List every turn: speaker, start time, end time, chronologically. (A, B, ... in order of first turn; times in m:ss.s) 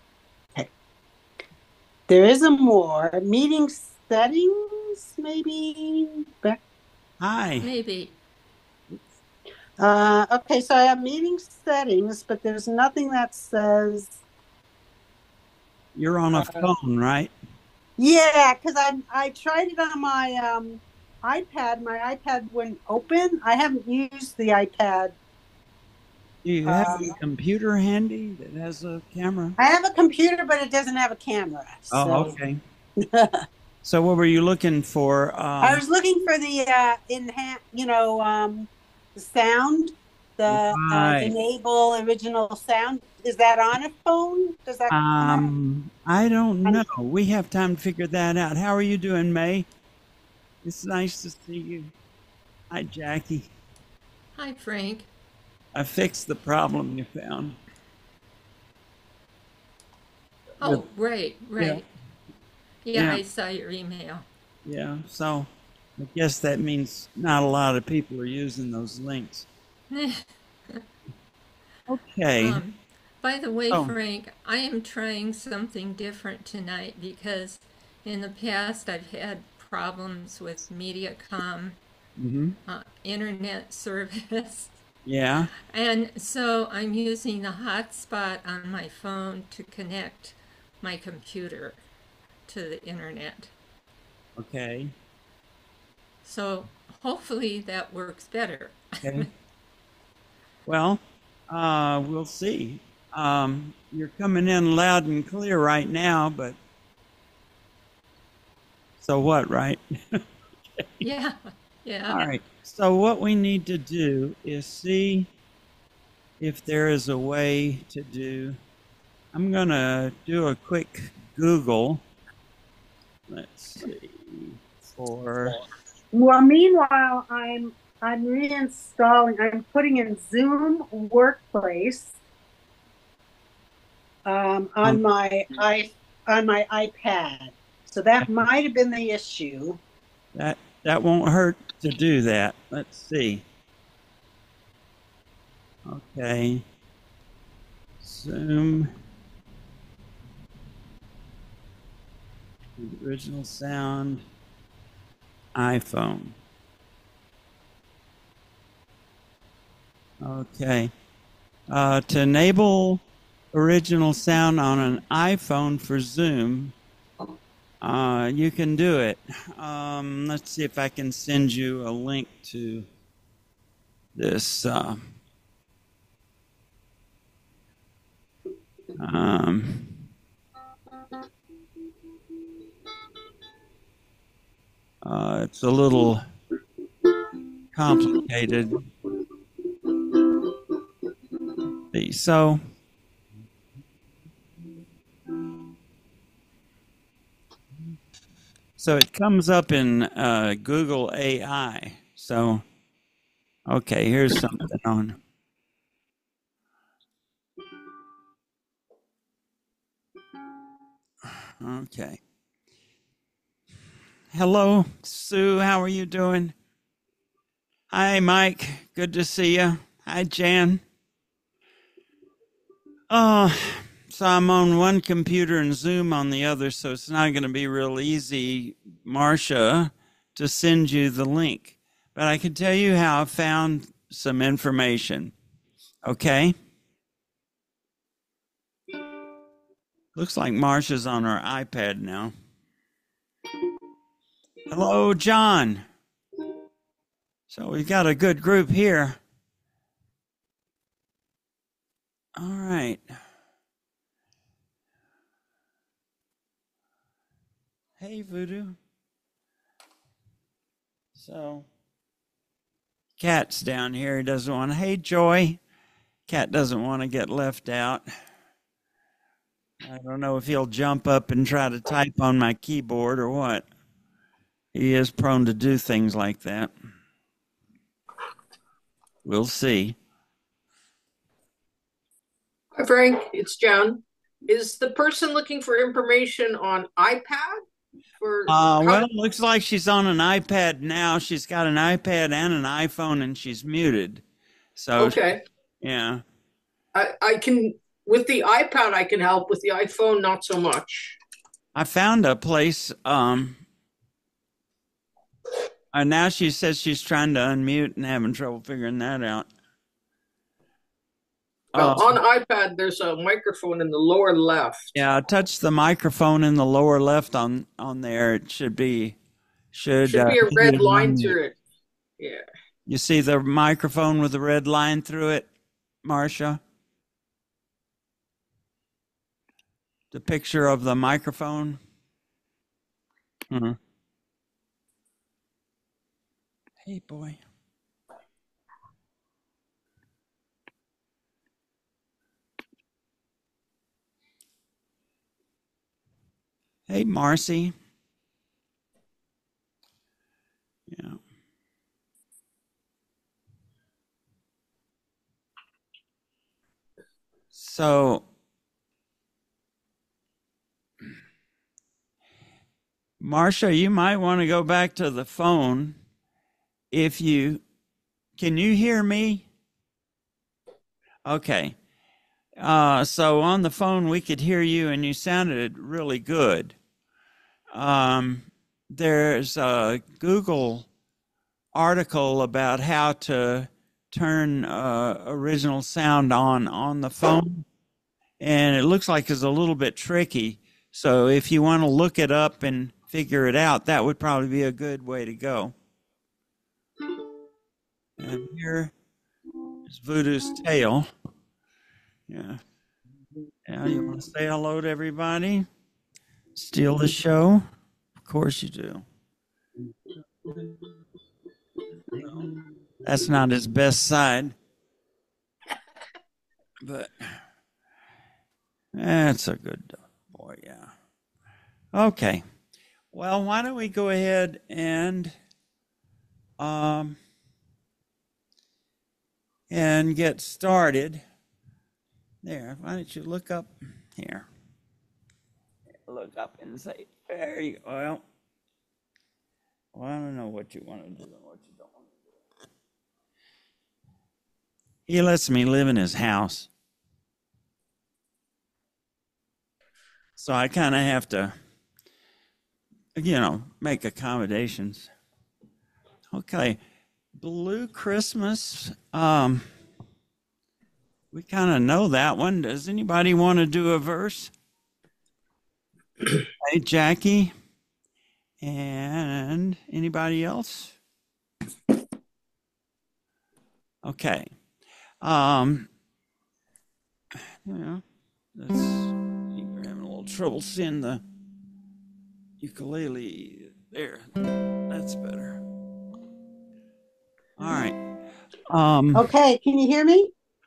0:02.1-0:06.6 A
0:07.2-0:07.7 B
0:07.6-0:08.2 C
0:09.8-0:14.2 A
0:16.0-0:17.3 B
0:16.4-0:16.7 A
0:18.0-0:25.2 A
0:26.4-0:29.6 B
0:26.6-0:27.2 A
0:29.6-0:32.4 A
0:31.9-0:32.6 B
0:33.0-0:33.4 A
0:33.8-0:35.8 B
0:35.6-0:45.5 A
0:40.5-0:41.3 B
0:44.9-0:49.7 B
0:50.6-0:51.9 B
0:52.7-0:53.5 B
0:54.4-0:55.1 C
0:55.7-0:57.6 B
1:00.6-1:01.8 C
1:02.8-1:04.3 C
1:03.0-1:03.2 B
1:04.7-1:09.5 B
1:09.9-1:10.8 C
1:11.9-1:12.6 B
1:12.4-1:21.8 C
1:22.2-1:22.6 B
1:22.7-1:24.8 C
1:25.1-1:25.5 B
1:25.7-1:31.8 C
1:32.5-1:33.5 C
1:34.4-1:34.9 B
1:36.2-1:39.3 C
1:39.0-1:39.3 B
1:40.7-1:46.6 B
1:49.0-1:49.8 B
1:51.0-1:52.2 C
1:52.1-1:55.3 B
1:56.4-1:58.6 B
1:59.3-2:02.0 B
2:03.3-2:05.6 B
2:06.1-2:12.2 A
2:14.3-2:19.8 A
2:20.4-2:23.4 B
2:25.9-2:26.6 B
2:28.0-2:28.9 B
2:32.8-2:34.2 B
2:35.6-2:36.4 B
2:40.2-2:40.9 B
2:41.7-2:46.8 B
2:47.8-2:52.9 B
2:54.2-2:55.0 B
2:59.0-3:00.0 B
3:05.0-3:06.2 B
3:07.7-3:08.8 B
3:11.9-3:12.6 B
3:18.8-3:22.6 B
3:23.7-3:25.2 B
3:31.6-3:32.2 B
3:34.3-3:36.6 B
3:37.9-3:40.8 B
3:43.1-3:55.3 B
3:56.0-3:56.6 B
4:00.1-4:02.3 B
4:04.7-4:05.9 B
4:07.5-4:09.2 B
4:12.4-4:13.0 B
4:18.0-4:18.8 B
4:21.2-4:21.7 B
4:23.2-4:25.6 B
4:26.3-4:28.1 B
4:29.8-4:33.7 B
4:34.7-4:36.7 B
4:39.2-4:40.0 B
4:42.8-4:47.6 D
4:48.2-4:49.0 D
4:48.5-4:54.2 B
4:54.8-4:55.2 B
4:55.0-4:55.4 D
4:55.8-4:56.2 B
4:57.0-5:01.2 D
5:01.7-5:03.6 B
5:05.9-5:09.5 B
5:11.7-5:12.2 B
5:11.8-5:14.9 D
5:14.9-5:19.2 B
5:19.7-5:21.4 B
5:20.1-5:21.6 D
5:22.9-5:25.5 B
5:26.0-5:26.6 B
5:30.1-5:31.8 B
5:33.5-5:33.8 B
5:36.8-5:37.4 B
5:46.9-5:47.7 B
5:50.9-5:51.2 B
5:57.5-5:58.3 B
6:03.2-6:06.0 B
6:06.9-6:07.6 B
6:08.4-6:09.5 B
6:11.3-6:11.8 B
6:12.6-6:16.8 B
6:17.7-6:20.9 B
6:21.7-6:27.7 B
6:28.4-6:35.8 B
6:38.2-6:38.9 B
6:39.9-6:41.1 B
6:42.3-6:42.6 B
6:43.7-6:45.7 B
6:46.5-6:47.6 B
6:48.2-6:49.1 B
6:53.0-6:54.6 B
6:56.8-6:57.4 B
6:59.0-7:00.9 B
7:01.9-7:02.4 B
7:03.1-7:05.4 B
7:06.6-7:07.2 B
7:09.7-7:11.2 B
7:12.4-7:14.5 B
7:16.1-7:18.2 B
7:19.9-7:22.1 B
7:25.1-7:26.7 B
7:30.4-7:31.6 B
7:33.2-7:35.1 B
7:36.3-7:36.8 B
7:37.4-7:39.7 B
7:41.3-7:44.5 B
7:46.3-7:47.5 B
7:48.6-7:51.0 B
7:54.0-7:54.5 B
7:55.2-7:55.9 B
7:57.6-7:58.0 B
7:58.6-8:01.2 B
8:02.6-8:04.3 B
8:04.9-8:05.6 B
8:07.6-8:08.0 B
8:08.7-8:09.3 B
8:09.2-8:10.3 A